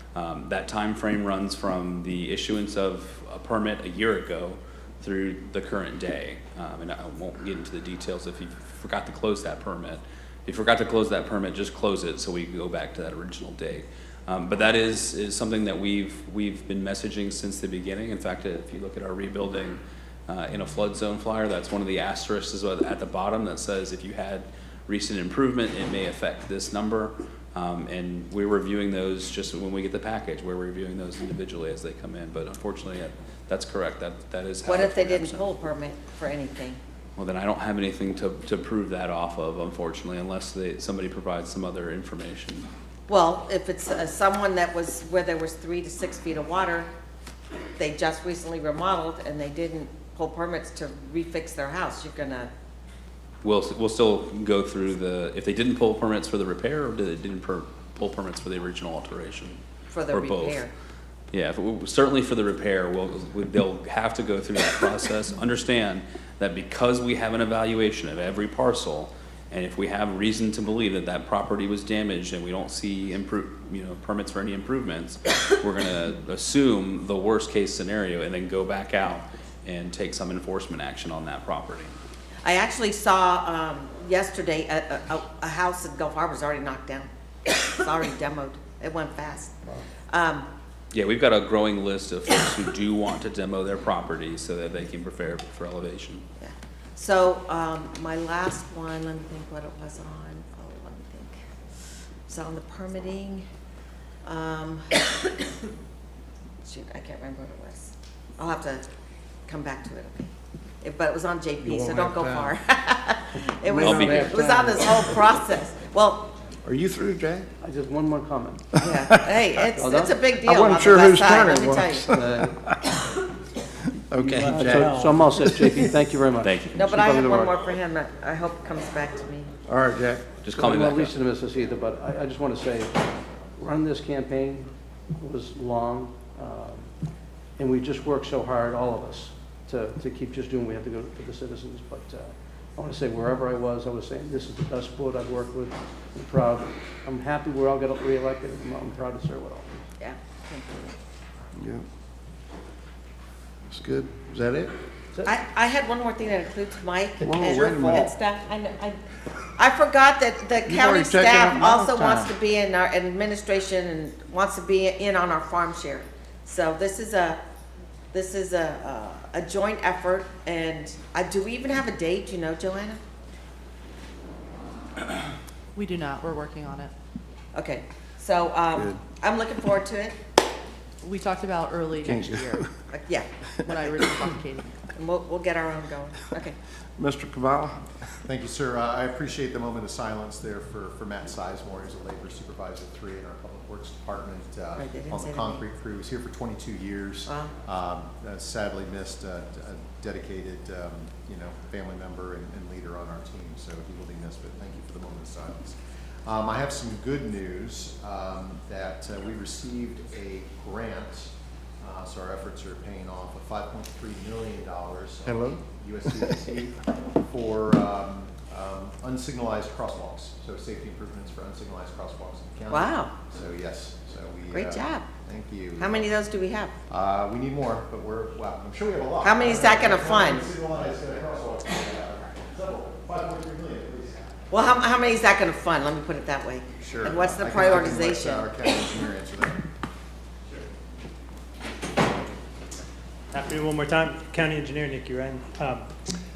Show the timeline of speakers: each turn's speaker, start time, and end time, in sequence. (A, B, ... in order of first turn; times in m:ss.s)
0:00.1-0:35.4 A
0:34.6-0:36.8 B
0:37.2-0:42.7 A
0:43.1-0:46.9 B
0:47.8-0:52.5 B
0:53.4-0:59.6 A
0:59.9-1:00.7 B
1:00.1-1:00.6 A
1:01.3-1:21.9 A
1:22.4-1:30.5 B
1:30.9-1:36.2 A
1:36.4-1:41.3 B
1:42.3-1:43.4 B
1:44.2-1:45.5 B
1:46.6-1:48.8 B
1:49.5-1:50.3 B
1:50.8-1:56.3 B
1:51.6-1:52.5 C
1:53.7-1:55.1 C
1:53.8-1:54.4 A
1:54.0-1:54.4 D
1:56.6-1:57.4 C
1:57.6-1:58.8 D
1:58.8-1:59.3 C
1:58.8-2:02.2 B
1:59.7-2:00.3 D
2:00.4-2:02.7 C
2:02.1-2:02.6 D
2:04.1-2:05.8 C
2:04.1-2:07.6 D
2:06.4-2:06.9 A
2:06.7-2:09.5 B
2:09.7-2:10.2 C
2:10.4-2:11.1 A
2:10.5-2:12.9 D
2:13.6-2:16.9 D
2:17.6-2:29.8 D
2:30.0-2:31.0 B
2:31.6-2:31.8 C
2:33.7-2:34.7 C
2:35.2-2:39.0 B
2:37.2-2:38.1 C
2:39.6-2:47.4 B
2:40.6-2:42.3 C
2:48.1-2:53.0 B
2:55.7-2:56.9 E
2:57.5-3:00.2 B
3:01.0-3:02.7 E
3:02.0-3:02.7 C
3:02.9-3:04.0 B
3:03.6-3:04.7 E
3:04.9-3:06.5 B
3:07.0-3:07.9 C
3:08.2-3:46.1 F
3:14.8-3:15.6 B
3:42.7-3:43.1 B
3:44.5-3:45.0 B
3:45.8-3:46.7 B
3:46.9-3:54.3 F
3:49.2-3:50.5 B
3:54.5-3:58.5 B
3:56.8-3:59.6 F
4:03.3-4:05.9 G